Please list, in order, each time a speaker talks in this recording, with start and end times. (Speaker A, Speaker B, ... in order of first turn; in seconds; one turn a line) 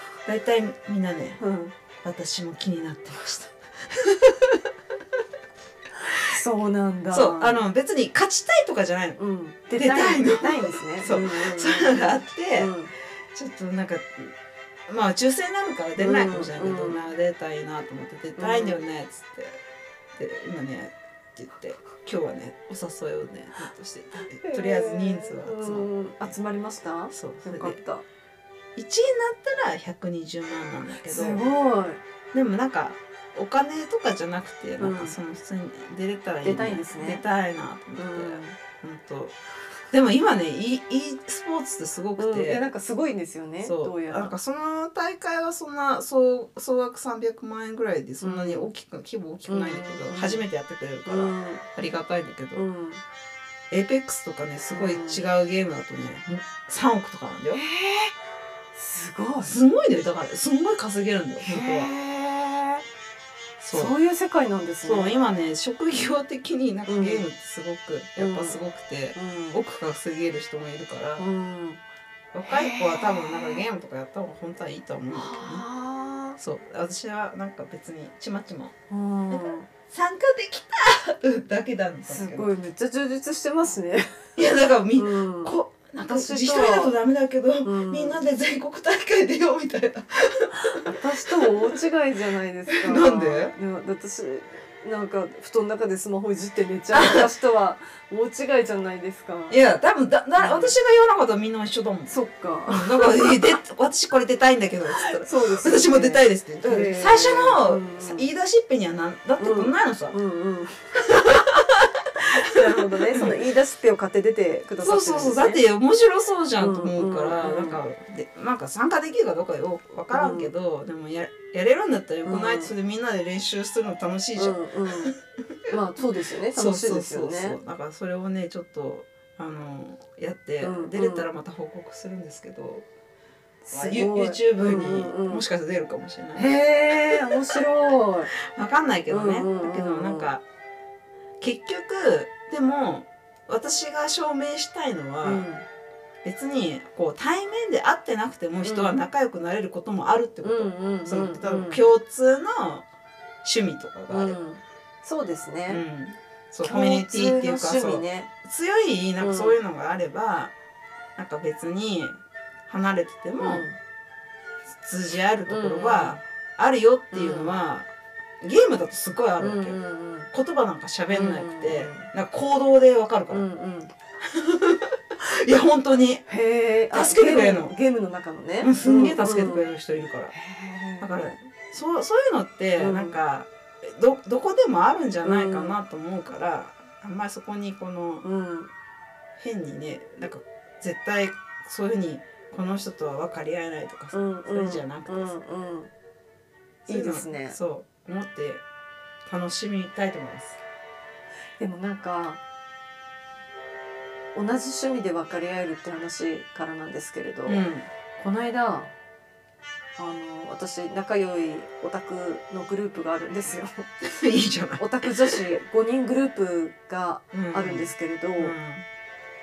Speaker A: 0.2-1.4
Speaker B: 1.4-1.8
Speaker A: 2.0-4.7
Speaker B: 6.0-7.6
Speaker A: 7.1-9.2
Speaker B: 9.2-12.9
Speaker A: 9.8-12.7
Speaker A: 13.3-14.3
Speaker A: 14.9-19.6
Speaker B: 16.0-17.1
Speaker B: 18.4-18.8
Speaker A: 20.2-26.3
Speaker B: 24.4-28.0
Speaker A: 27.1-27.8
Speaker A: 28.8-31.5
Speaker B: 31.1-32.0
Speaker A: 32.3-39.4
Speaker B: 34.8-35.2
Speaker B: 36.4-37.2
Speaker B: 38.0-38.6
Speaker A: 39.9-42.6
Speaker B: 42.2-44.3
Speaker A: 43.6-52.6
Speaker B: 48.2-48.7
Speaker B: 49.5-50.5
Speaker B: 51.0-51.6
Speaker B: 52.5-53.0
Speaker A: 53.7-57.6
Speaker B: 54.7-55.2
Speaker B: 57.5-58.1
Speaker B: 58.7-59.6
Speaker A: 59.4-61.9
Speaker B: 61.4-62.8
Speaker A: 63.6-64.0
Speaker B: 63.7-65.2
Speaker A: 64.8-71.2
Speaker B: 66.9-67.2
Speaker B: 68.2-68.6
Speaker B: 69.2-69.6
Speaker B: 71.2-71.8
Speaker A: 72.3-75.7
Speaker B: 72.5-73.7
Speaker B: 75.1-76.4
Speaker A: 76.4-78.7
Speaker B: 78.9-79.7
Speaker A: 79.3-82.5
Speaker B: 82.1-84.1
Speaker A: 84.4-91.5
Speaker B: 85.0-85.5
Speaker B: 86.1-87.0
Speaker B: 87.6-88.2
Speaker B: 90.6-99.6
Speaker A: 92.7-93.5
Speaker A: 97.0-97.2
Speaker A: 99.5-102.1
Speaker B: 100.4-100.7
Speaker B: 102.1-103.3
Speaker A: 102.7-110.2
Speaker B: 105.0-108.3
Speaker B: 109.4-110.8
Speaker A: 111.1-111.9
Speaker B: 112.2-115.6
Speaker A: 112.6-113.3
Speaker A: 114.8-125.2
Speaker B: 116.6-117.8
Speaker B: 120.1-120.5
Speaker B: 122.3-122.7
Speaker B: 124.4-125.1
Speaker B: 125.7-127.6
Speaker A: 126.5-132.9
Speaker B: 130.6-131.3
Speaker B: 133.7-135.4
Speaker A: 133.7-136.5
Speaker B: 136.3-138.3
Speaker A: 137.1-137.6
Speaker A: 138.4-140.4
Speaker B: 139.1-140.3
Speaker A: 141.4-145.5
Speaker B: 145.2-145.6
Speaker A: 146.2-152.9
Speaker B: 148.6-149.0
Speaker B: 150.4-151.9
Speaker A: 153.4-154.4
Speaker B: 154.1-155.8
Speaker A: 155.7-160.5
Speaker B: 156.6-158.3
Speaker B: 159.2-159.6
Speaker A: 161.2-163.7
Speaker B: 163.4-163.8
Speaker A: 164.8-167.9
Speaker B: 165.5-166.2
Speaker B: 167.1-167.5
Speaker A: 168.4-169.8
Speaker B: 169.4-170.3
Speaker A: 170.3-173.4
Speaker B: 171.1-172.1
Speaker B: 173.3-173.9
Speaker A: 174.2-176.2
Speaker B: 176.3-179.7
Speaker A: 176.9-177.8
Speaker A: 178.6-180.3
Speaker B: 180.3-181.2
Speaker A: 181.0-188.2
Speaker B: 182.8-183.2
Speaker B: 185.2-185.8
Speaker B: 188.2-188.7
Speaker A: 189.4-195.3
Speaker B: 194.1-195.9
Speaker A: 196.9-198.6
Speaker B: 196.9-197.6
Speaker A: 199.2-200.6
Speaker B: 201.6-202.4
Speaker B: 204.3-207.6
Speaker A: 207.5-207.9
Speaker B: 208.2-208.9
Speaker B: 210.0-213.9
Speaker A: 214.0-215.6
Speaker B: 214.8-218.6
Speaker A: 217.3-218.8